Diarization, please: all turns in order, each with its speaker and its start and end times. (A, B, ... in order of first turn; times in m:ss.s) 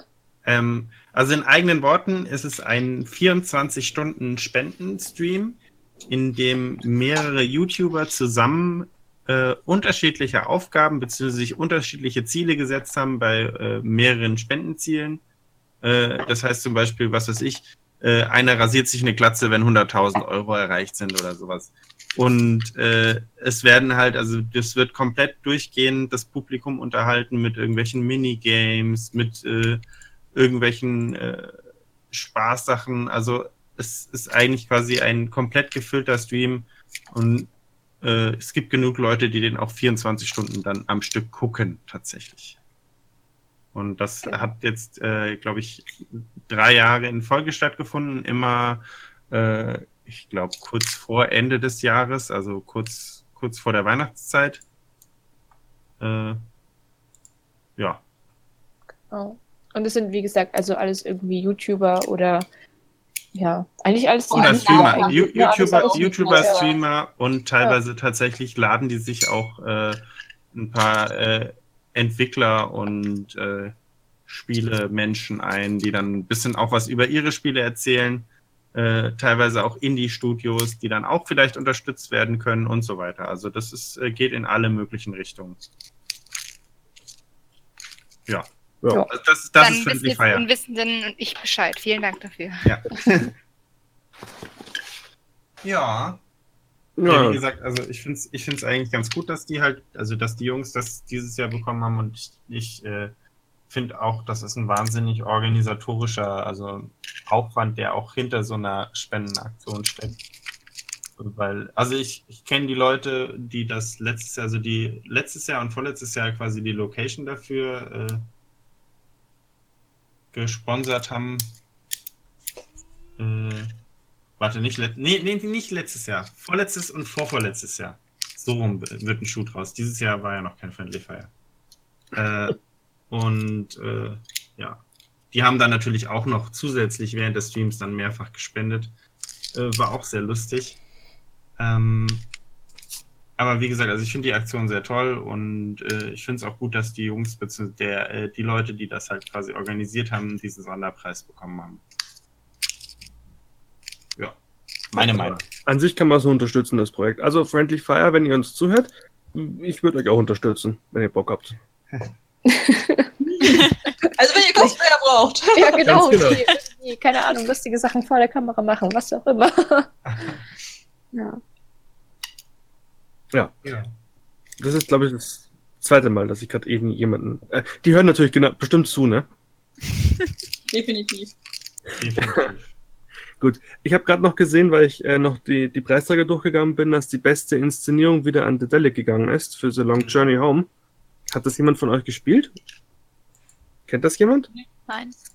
0:00.4-0:15.2 A
0:15.8-0:29.8 A
0:30.3-0:31.6 A
0:32.1-0:42.6 A
0:43.7-0:54.6 A
0:56.0-0:56.4 A
0:57.8-0:58.0 A
0:59.1-1:02.5 B
1:03.4-1:06.7 B
1:04.3-1:06.7 C
1:04.3-1:13.8 A
1:14.3-1:25.6 A
1:29.0-1:30.5 A
1:29.6-1:32.7 D
1:32.6-1:33.3 A
1:35.6-1:36.2 A
1:37.0-1:37.4 E
1:37.1-1:43.1 A
1:43.7-1:50.2 A
1:51.2-1:58.3 A
2:00.3-2:01.6 A
2:03.2-2:03.8 A
2:04.4-2:11.3 A
2:12.1-2:12.6 A
2:13.1-2:18.9 A
2:19.5-2:20.8 A
2:21.6-2:22.3 A
2:23.4-2:31.8 A
2:34.9-2:35.5 A
2:35.0-2:41.6 E
2:42.5-2:43.6 B
2:43.4-2:43.7 C
2:44.2-2:45.8 C
2:45.6-2:49.9 B
2:45.8-2:46.4 A
2:45.9-2:46.3 E
2:50.0-2:50.4 A
2:51.1-2:51.4 B
2:53.3-2:53.6 E
2:53.6-2:53.9 A
2:54.6-2:59.3 E
3:00.7-3:01.3 C
3:02.0-3:02.8 A
3:03.4-3:10.7 E
3:11.3-3:12.6 E
3:13.9-3:14.5 E